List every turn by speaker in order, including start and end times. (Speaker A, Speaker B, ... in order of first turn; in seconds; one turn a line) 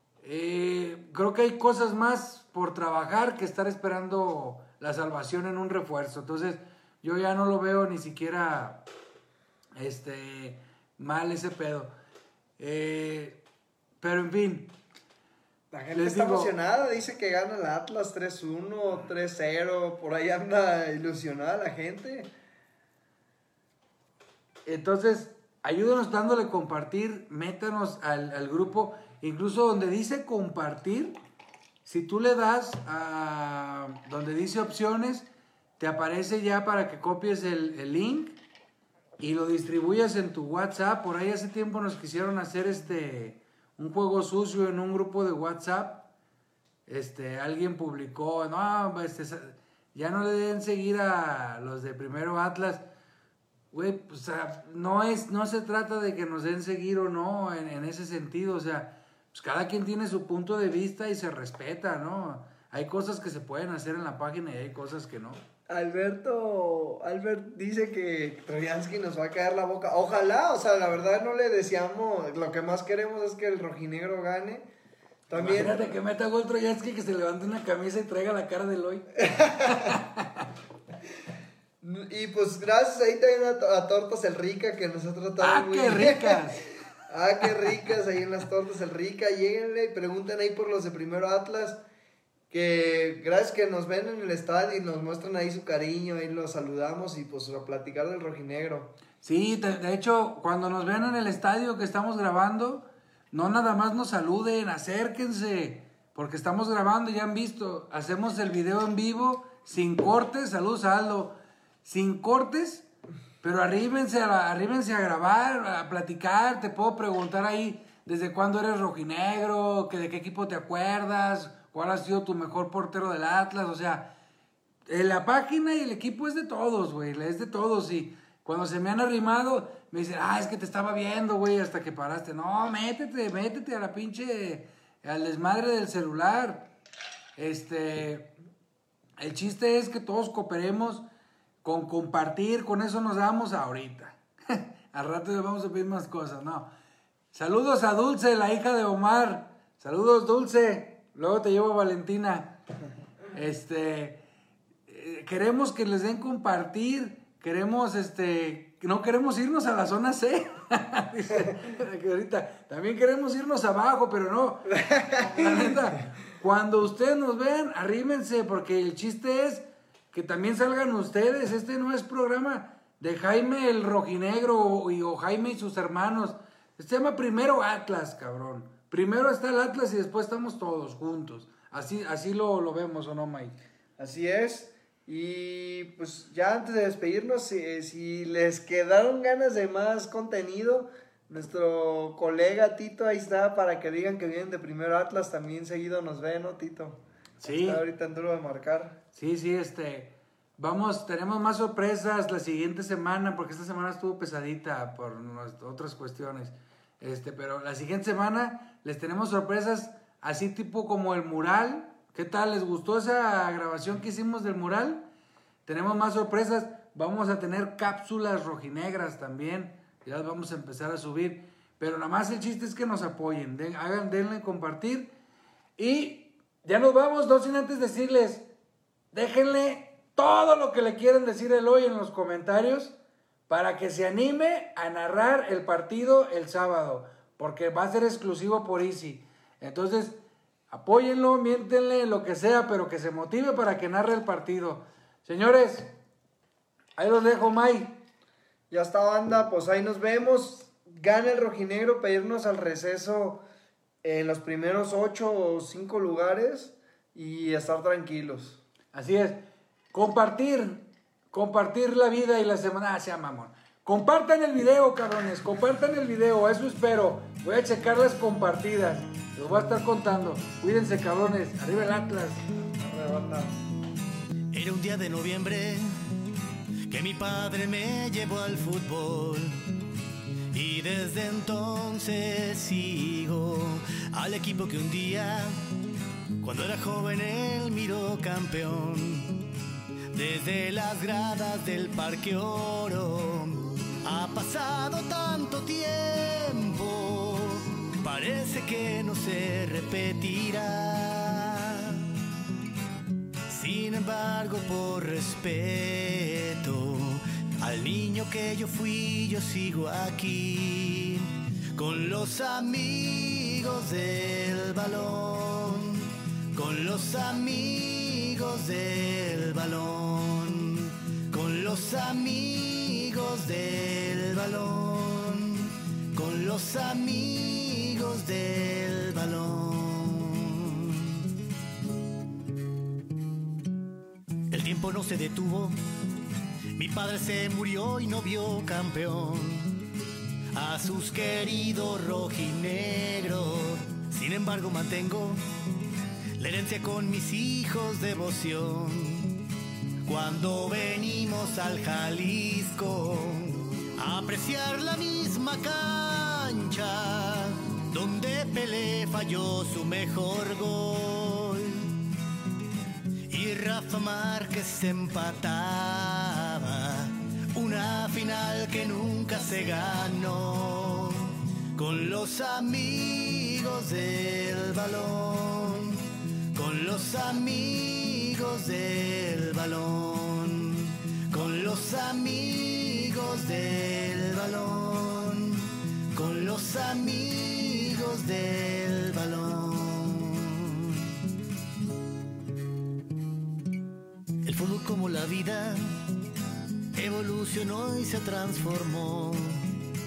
Speaker A: 0.2-8.9
Speaker A: 9.8-11.9
Speaker A: 12.6-13.4
Speaker A: 14.0-14.7
Speaker B: 15.7-22.3
Speaker A: 15.9-16.6
Speaker A: 24.7-31.2
Speaker A: 31.9-35.3
Speaker A: 35.8-38.4
Speaker A: 39.2-46.1
Speaker A: 46.9-52.8
Speaker A: 53.7-65.4
Speaker B: 65.7-74.7
Speaker B: 75.3-75.9
Speaker A: 75.4-80.5
Speaker B: 79.2-80.0
Speaker B: 81.8-86.5
Speaker A: 85.4-86.7
Speaker B: 87.1-91.8
Speaker B: 92.5-99.0
Speaker A: 99.2-112.9
Speaker A: 113.4-124.1
Speaker A: 124.9-136.7
Speaker A: 137.4-138.3
Speaker A: 139.2-141.1
Speaker A: 141.6-146.7
Speaker A: 147.3-152.6
Speaker A: 153.3-154.2
Speaker A: 154.9-183.6
Speaker B: 164.7-165.9
Speaker B: 184.0-199.0
Speaker A: 197.4-197.8
Speaker A: 199.2-215.1
Speaker A: 215.7-225.1
Speaker A: 225.8-228.5
Speaker A: 229.1-233.0
Speaker A: 233.5-245.9
Speaker A: 247.0-248.0
Speaker B: 248.7-253.4
Speaker B: 254.0-258.6
Speaker A: 258.9-272.4
Speaker B: 272.8-273.6
Speaker C: 274.5-275.9
Speaker C: 276.9-279.6
Speaker C: 280.5-285.6
Speaker C: 286.4-289.5
Speaker C: 290.1-302.1
Speaker C: 303.5-331.2
Speaker C: 334.5-335.8
Speaker C: 336.8-339.8
Speaker C: 340.5-345.4
Speaker C: 346.4-349.4
Speaker C: 350.1-361.9
Speaker C: 363.3-391.1
Speaker C: 394.4-395.9
Speaker C: 396.9-399.7